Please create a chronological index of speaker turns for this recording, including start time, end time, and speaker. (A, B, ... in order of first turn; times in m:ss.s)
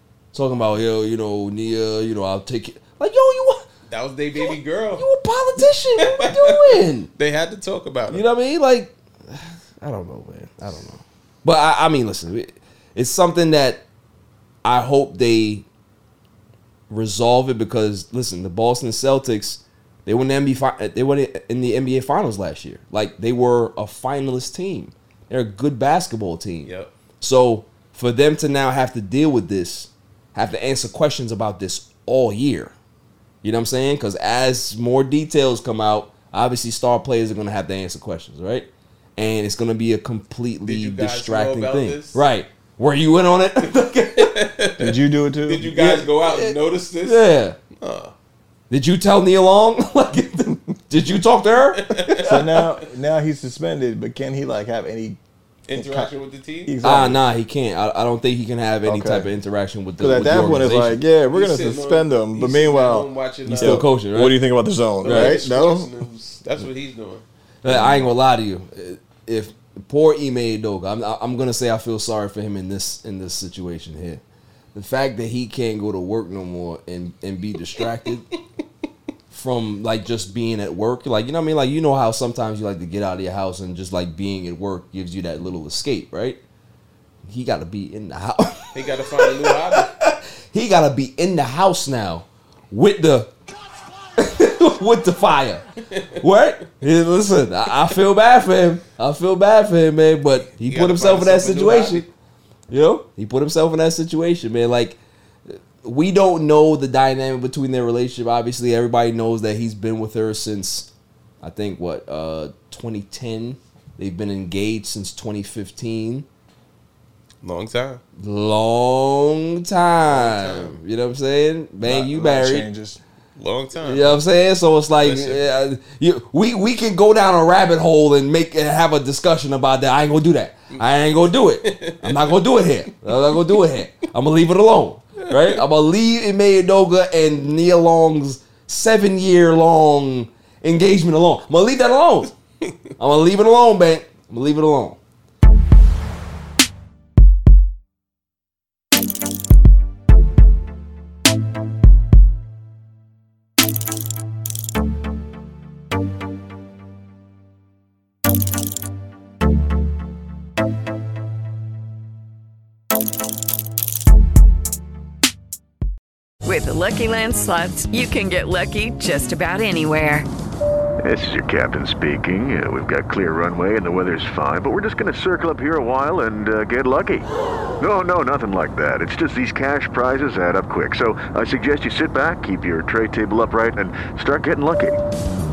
0:00.3-0:03.7 A
0:03.9-0:05.0 B
0:04.4-0:07.1 A
0:06.2-0:08.2 B
0:08.1-0:13.8 A
0:14.6-0:15.6 A
0:16.9-0:32.7 A
0:26.6-0:26.9 B
0:33.4-0:44.3 A
0:40.6-0:42.2 B
0:44.2-0:48.1 B
0:44.8-0:45.8 C
0:45.8-0:47.6 A
0:48.7-0:52.5 A
0:51.8-0:52.6 B
0:52.2-0:55.2 C
0:55.7-0:56.7 B
0:55.7-0:56.1 C
0:56.6-0:57.2 C
0:56.8-1:01.0 A
0:58.8-0:59.3 C
1:00.0-1:06.0 C
1:01.3-1:03.9 B
1:03.4-1:04.4 A
1:05.0-1:07.2 B
1:05.0-1:05.4 A
1:07.6-1:14.2 A
1:07.6-1:08.1 C
1:14.7-1:18.3 A
1:19.3-1:26.4 A
1:27.2-1:33.3 A
1:28.7-1:29.9 B
1:34.2-1:42.1 A
1:40.6-1:42.1 B
1:42.7-1:45.0 A
1:45.8-1:50.9 A
1:51.4-1:56.2 A
1:57.4-1:58.0 B
1:58.2-2:02.7 A
2:00.0-2:00.8 B
2:01.8-2:03.0 C
2:03.4-2:04.2 B
2:03.8-2:22.3 A
2:05.0-2:05.5 B
2:12.0-2:12.3 B
2:23.0-2:25.0 A
2:46.4-2:50.2 D
2:51.0-2:57.3 E
2:57.8-3:05.0 E